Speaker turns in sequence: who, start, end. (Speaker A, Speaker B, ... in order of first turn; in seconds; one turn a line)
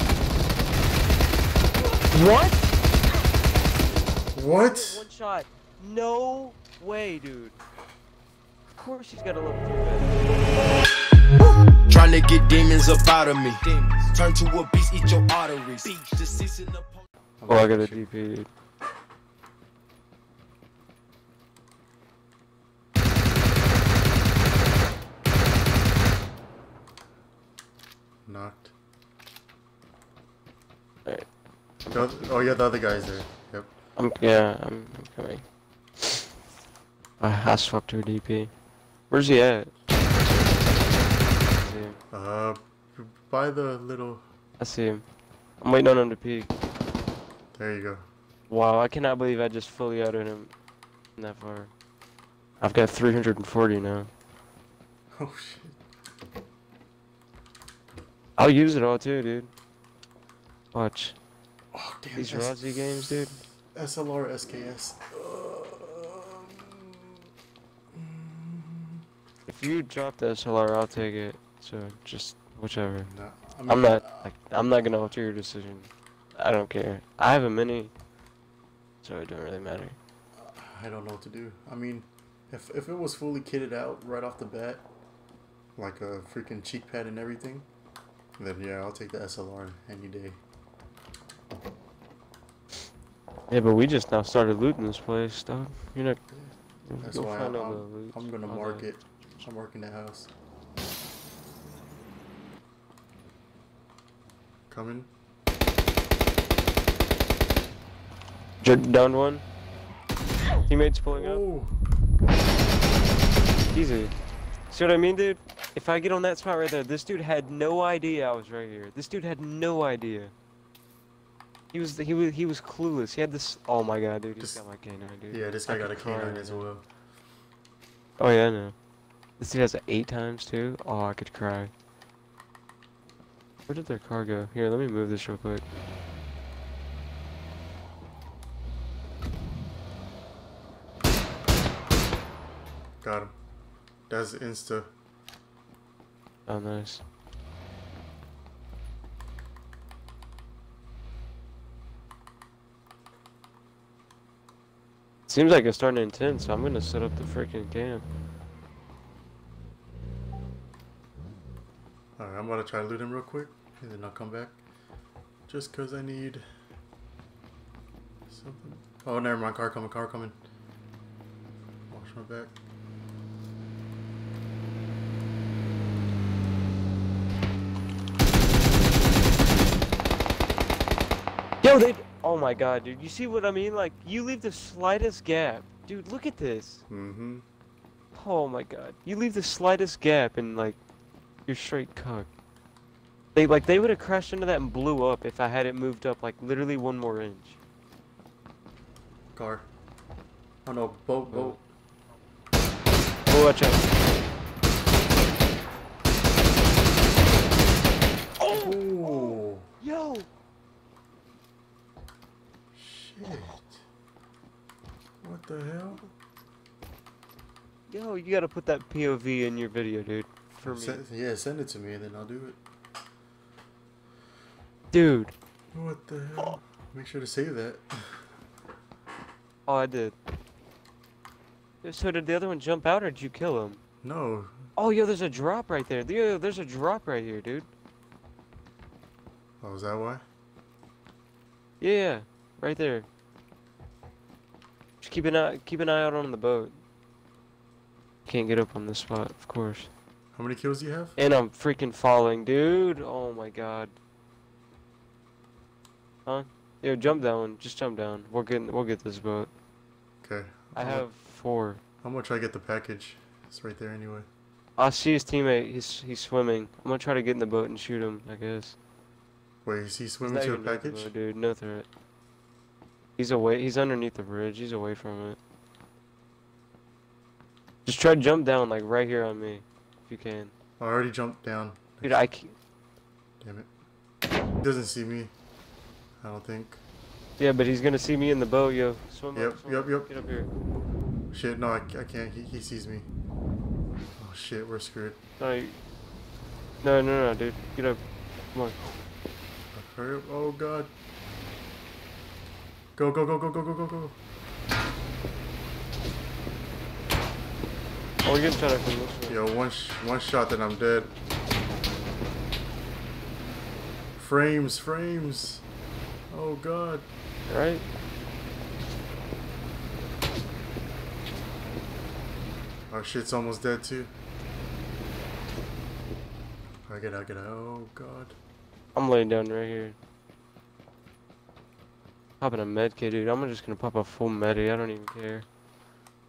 Speaker A: 2.1-2.6
Speaker B: 4.3-5.0
Speaker A: 4.5-7.5
Speaker A: 8.8-10.2
Speaker C: 11.9-16.9
Speaker B: 17.4-18.1
Speaker A: 17.5-18.5
Speaker B: 28.2-28.7
Speaker B: 31.9-33.7
Speaker A: 34.0-35.4
Speaker A: 37.2-38.5
Speaker A: 39.1-39.7
Speaker A: 41.5-42.0
Speaker B: 42.1-44.2
Speaker A: 44.6-45.0
Speaker A: 45.6-46.5
Speaker B: 47.5-48.0
Speaker A: 48.5-50.5
Speaker A: 51.2-51.7
Speaker A: 52.6-54.1
Speaker B: 55.1-55.8
Speaker A: 58.4-59.5
Speaker A: 60.7-61.2
Speaker B: 61.7-67.2
Speaker A: 62.1-63.4
Speaker B: 67.9-69.0
Speaker A: 69.5-73.1
Speaker B: 73.0-74.3
Speaker A: 73.7-77.9
Speaker A: 79.0-80.0
Speaker B: 80.3-84.8
Speaker B: 85.8-87.7
Speaker B: 88.4-90.4
Speaker A: 93.5-96.2
Speaker B: 96.3-100.3
Speaker A: 96.8-98.9
Speaker B: 104.7-105.1
Speaker A: 108.6-109.4
Speaker A: 110.7-111.4
Speaker B: 111.1-111.8
Speaker A: 113.7-114.1
Speaker A: 114.7-120.3
Speaker A: 121.7-126.7
Speaker B: 124.3-124.6
Speaker B: 125.3-126.8
Speaker A: 128.2-128.7
Speaker A: 129.4-131.7
Speaker A: 133.7-135.6
Speaker B: 143.0-143.3
Speaker B: 144.1-144.9
Speaker A: 146.5-147.0
Speaker A: 155.3-158.0
Speaker B: 162.2-164.6
Speaker B: 165.5-166.4
Speaker B: 168.3-170.4
Speaker B: 171.9-172.5
Speaker A: 181.6-186.8
Speaker B: 186.9-187.4
Speaker A: 188.1-190.8
Speaker A: 191.4-192.3
Speaker A: 193.3-197.6
Speaker B: 199.3-199.7
Speaker B: 200.6-201.7
Speaker A: 201.3-201.5
Speaker A: 203.3-203.8
Speaker A: 208.4-210.3
Speaker B: 208.5-209.7
Speaker B: 212.7-213.8
Speaker B: 215.2-216.0
Speaker A: 217.9-221.0
Speaker B: 220.6-222.6
Speaker A: 224.9-225.3
Speaker B: 225.7-228.3
Speaker A: 229.7-230.1
Speaker A: 231.8-233.8
Speaker B: 234.0-234.6
Speaker A: 234.8-237.7
Speaker B: 239.6-240.2
Speaker A: 241.8-243.1
Speaker A: 245.0-246.8
Speaker A: 248.2-249.9
Speaker B: 250.3-251.2
Speaker A: 251.2-253.9
Speaker A: 256.2-259.5
Speaker B: 260.2-261.1
Speaker A: 260.7-261.8
Speaker B: 262.0-264.3
Speaker A: 264.8-268.8
Speaker B: 269.6-271.1
Speaker A: 270.2-271.9
Speaker A: 273.2-275.4
Speaker A: 277.8-280.5
Speaker B: 280.8-282.2
Speaker A: 282.0-282.5
Speaker B: 283.4-283.7
Speaker B: 284.6-285.3
Speaker B: 286.2-286.8
Speaker A: 287.4-290.5
Speaker B: 289.3-290.1
Speaker B: 291.3-293.1
Speaker B: 294.2-295.2
Speaker A: 295.4-295.8
Speaker A: 296.8-298.0
Speaker B: 299.7-300.9
Speaker B: 302.9-304.1
Speaker A: 308.2-309.4
Speaker B: 309.3-311.1
Speaker B: 314.2-315.6
Speaker B: 316.3-317.1
Speaker A: 317.5-317.8
Speaker B: 322.9-324.1
Speaker B: 326.9-328.4
Speaker A: 328.9-329.9
Speaker A: 332.4-335.4